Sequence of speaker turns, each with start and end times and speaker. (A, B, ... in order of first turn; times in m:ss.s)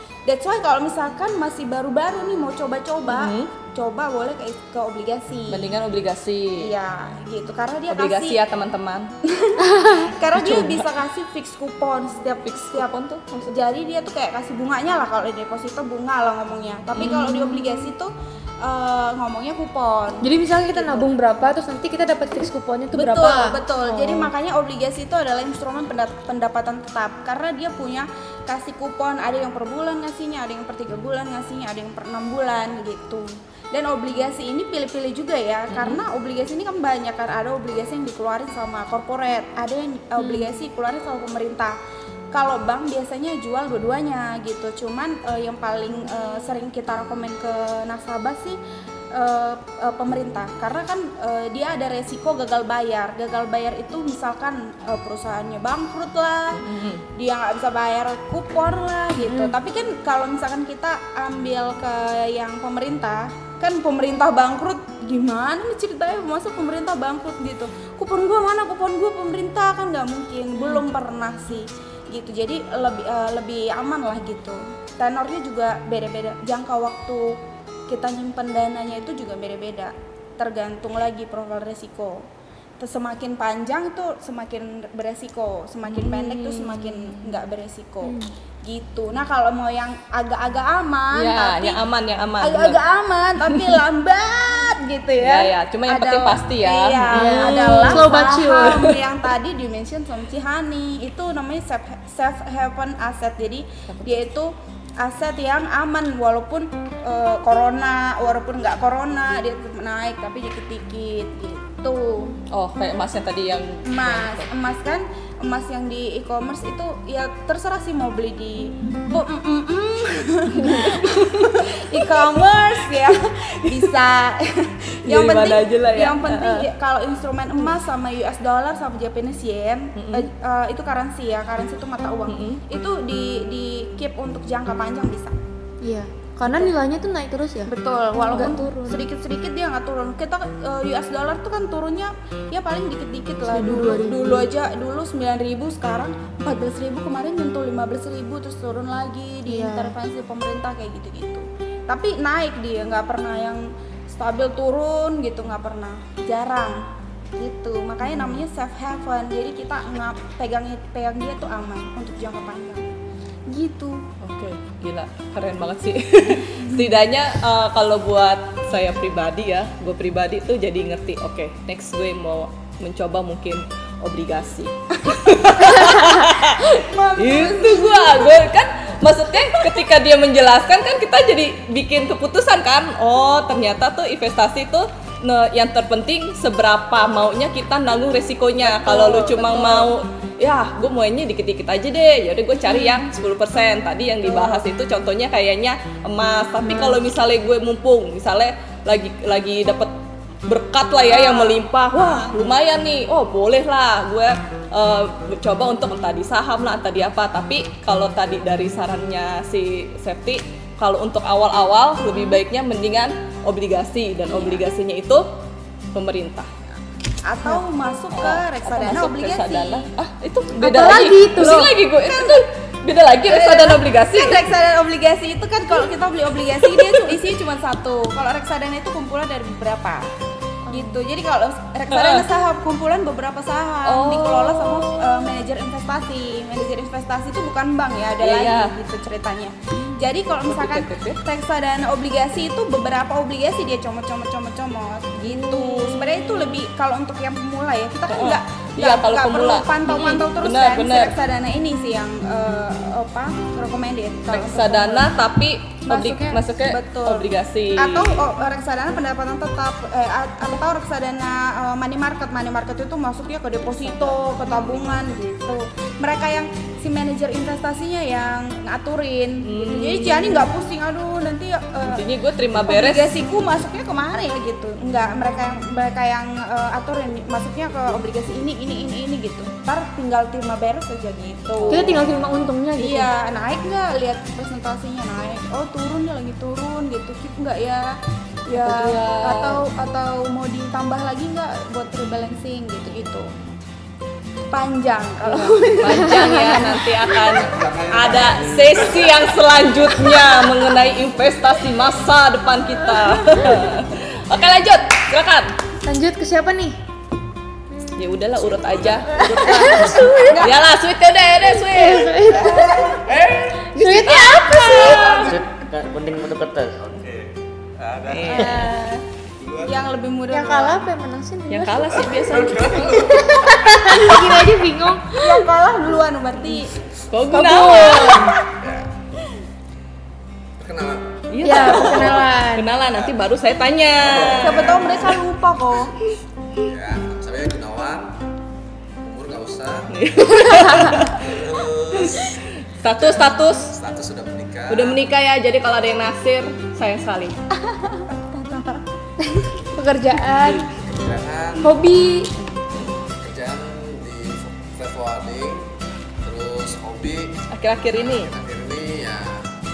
0:00.2-0:05.7 A
0:03.1-0:03.5 B
0:05.5-0:06.7 B
0:06.6-0:08.4 A
0:07.9-0:09.1 B
0:09.3-0:12.9 A
0:09.6-0:10.1 C
0:10.3-0:10.9 B
0:12.4-0:13.5 B
0:13.5-0:21.0 A
0:16.9-0:17.4 B
0:17.0-0:17.9 C
0:20.2-0:24.3 C
0:22.9-0:41.8 A
0:35.7-0:36.0 B
0:40.2-0:40.5 C
0:42.3-0:48.6 A
0:49.1-1:22.2 A
0:56.5-0:57.0 B
0:59.2-0:59.5 C
1:22.8-1:31.8 A
1:25.9-1:27.4 B
1:28.0-1:28.3 C
1:31.1-1:32.8 B
1:32.4-1:52.4 A
1:33.5-1:33.8 B
1:35.2-1:39.0 B
1:37.1-1:38.8 C
1:43.9-1:44.1 B
1:52.5-1:54.5 B
1:53.8-2:15.4 A
2:00.5-2:02.1 B
2:03.6-2:03.9 B
2:05.0-2:06.7 B
2:10.0-2:10.3 B
2:12.3-2:12.6 B
2:15.8-2:17.7 C
2:17.7-2:36.8 A
2:18.3-2:19.1 C
2:23.5-2:24.5 C
2:29.5-2:29.9 C
2:37.4-2:42.9 A
2:38.1-2:38.4 B
2:43.5-2:44.1 A
2:44.2-3:19.9 B
2:55.1-2:56.1 A
2:56.6-2:58.4 A
3:08.6-3:09.9 A
3:16.6-3:17.0 C
3:20.4-3:35.3 B
3:21.1-3:22.3 A
3:34.3-3:34.6 A
3:35.9-3:36.5 B
3:37.2-3:39.9 A
3:38.1-3:44.4 B
3:40.6-3:41.7 C
3:41.9-3:42.4 A
3:43.2-3:50.1 A
3:46.6-3:47.2 B
3:50.7-4:15.1 A
3:50.7-3:50.9 C
3:51.9-3:52.3 B
3:53.8-3:55.3 B
3:58.2-3:58.7 B
4:00.4-4:01.2 B
4:05.2-4:06.6 B
4:08.1-4:11.2 B
4:14.3-4:18.2 B
4:15.9-4:42.0 A
4:23.8-4:24.2 B
4:29.4-4:30.5 B
4:31.8-4:33.1 B
4:41.6-4:42.0 B
4:41.7-4:43.1 C
4:42.8-4:53.4 A
4:48.5-4:49.6 B
4:54.5-4:57.5 A
4:55.2-5:05.5 B
4:55.9-4:56.7 C
4:57.4-5:00.0 D
4:58.4-4:58.7 E
5:03.1-5:03.7 A
5:05.8-5:06.8 C
5:08.0-5:12.3 B
5:08.4-5:09.3 D
5:09.4-5:10.4 C
5:10.3-5:10.6 A
5:11.5-5:13.0 C
5:12.3-5:13.0 A
5:12.5-5:13.7 D
5:13.7-5:15.2 B
5:13.7-5:15.3 C
5:14.7-5:15.4 D
5:15.2-5:16.8 E
5:16.9-5:18.6 D
5:18.1-5:18.7 B
5:18.3-5:19.0 A
5:19.4-5:19.7 D
5:19.6-5:20.8 A
5:20.3-5:22.3 C
5:21.5-5:23.2 B
5:22.1-5:24.4 D
5:22.9-5:25.5 C
5:25.2-5:26.8 A
5:27.1-5:28.4 B
5:27.3-5:28.3 C
5:27.5-5:28.4 A
5:28.5-5:28.9 D
5:30.6-5:32.3 D
5:31.3-5:34.9 B
5:31.4-5:32.7 C
5:34.0-5:35.2 D
5:34.4-5:35.9 A
5:36.5-5:38.2 D
5:39.0-5:42.4 D
5:39.9-5:41.3 B
5:42.0-5:43.7 B
5:43.0-5:45.0 D
5:44.7-5:47.4 B
5:47.6-5:48.8 A
5:49.7-5:50.7 C
5:50.7-5:51.7 D
5:51.6-5:52.3 C
5:52.9-5:59.5 D
5:57.5-5:58.3 B